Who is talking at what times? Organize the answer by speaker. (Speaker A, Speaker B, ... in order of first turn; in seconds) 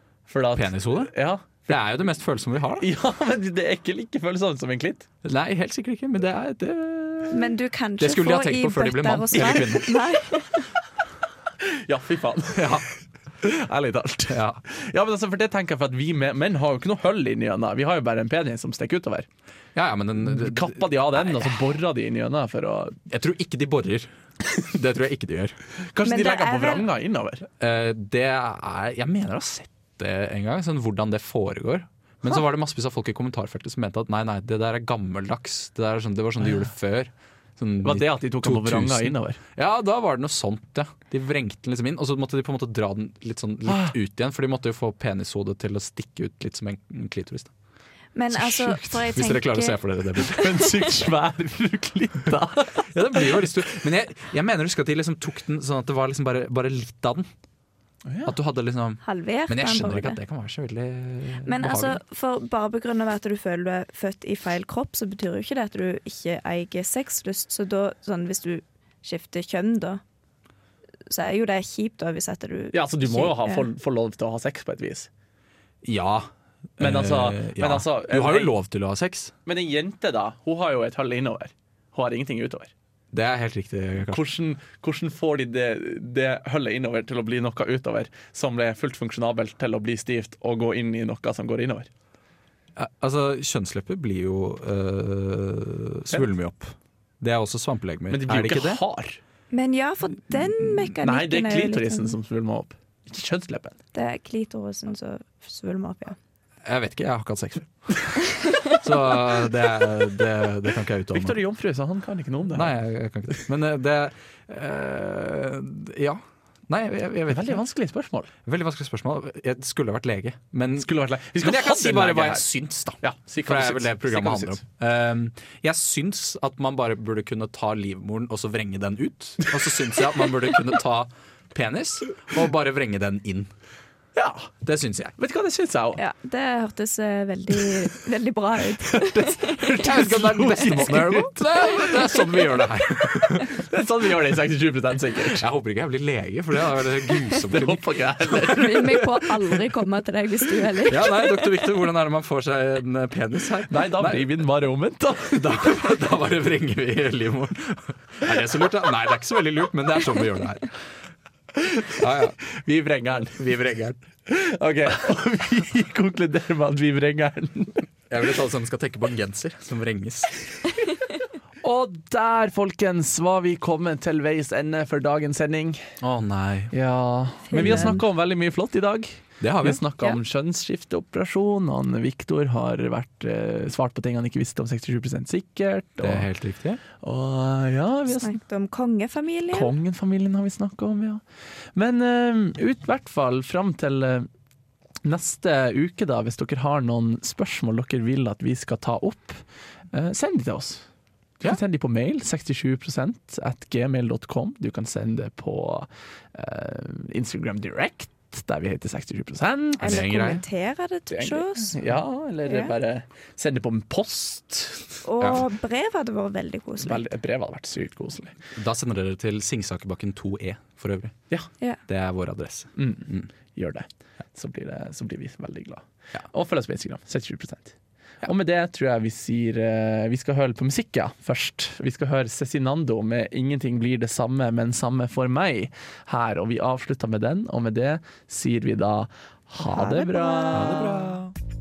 Speaker A: 0.3-1.9, 2.8-5.1, 9.3-9.7, 11.6-12.8, 13.4-19.3, 20.2-23.0, 25.9-27.5, 37.8-39.4, 43.7-43.9, 48.5-49.0, 50.2-53.5, 58.0-58.3, 72.7-75.1, 76.8-78.5, 79.5-82.7, 84.0-91.9, 98.1-99.2, 101.0-103.8, 111.1-112.7, 117.3-118.3, 120.8-122.4, 123.0-124.6, 134.1-134.5, 135.2-136.0, 138.9-141.9, 143.5-145.4, 147.5-149.6, 153.7-155.7, 161.6-162.0, 162.5-163.4, 164.3-167.8, 171.6-175.9, 176.7-186.3, 187.0-188.3, 189.5-191.2, 191.7-194.3, 195.0-200.8, 201.4-210.0, 211.1-215.0, 216.8-218.3, 222.8-240.9
Speaker B: 0.5-1.1, 1.7-2.9, 5.2-7.4, 8.0-10.0, 12.5-12.9, 14.3-14.6, 19.7-21.5, 23.1-25.6, 27.6-47.5, 49.1-50.7, 52.8-57.3, 58.2-62.0, 75.8-79.3, 83.1-84.2, 92.8-98.8, 106.6-111.4, 112.5-117.6, 118.5-133.5, 134.6-135.1, 139.8-143.5, 145.3-147.9, 150.9-154.3, 155.3-160.7, 161.9-162.4, 163.3-164.0, 168.1-170.6, 176.0-176.7, 177.6-177.9, 179.4-179.8, 186.0-186.8, 209.8-210.4, 218.5-221.2, 221.9-223.3, 240.5-241.3
Speaker C: 7.3-10.7, 26.0-26.9, 48.1-49.8, 59.0-60.2, 61.4-70.0, 71.1-73.7, 99.5-102.2, 103.9-106.2, 136.0-139.8, 148.3-151.2, 177.5-178.0, 188.1-189.7, 209.8-211.8, 212.4-212.7, 215.0-217.0, 239.6-241.1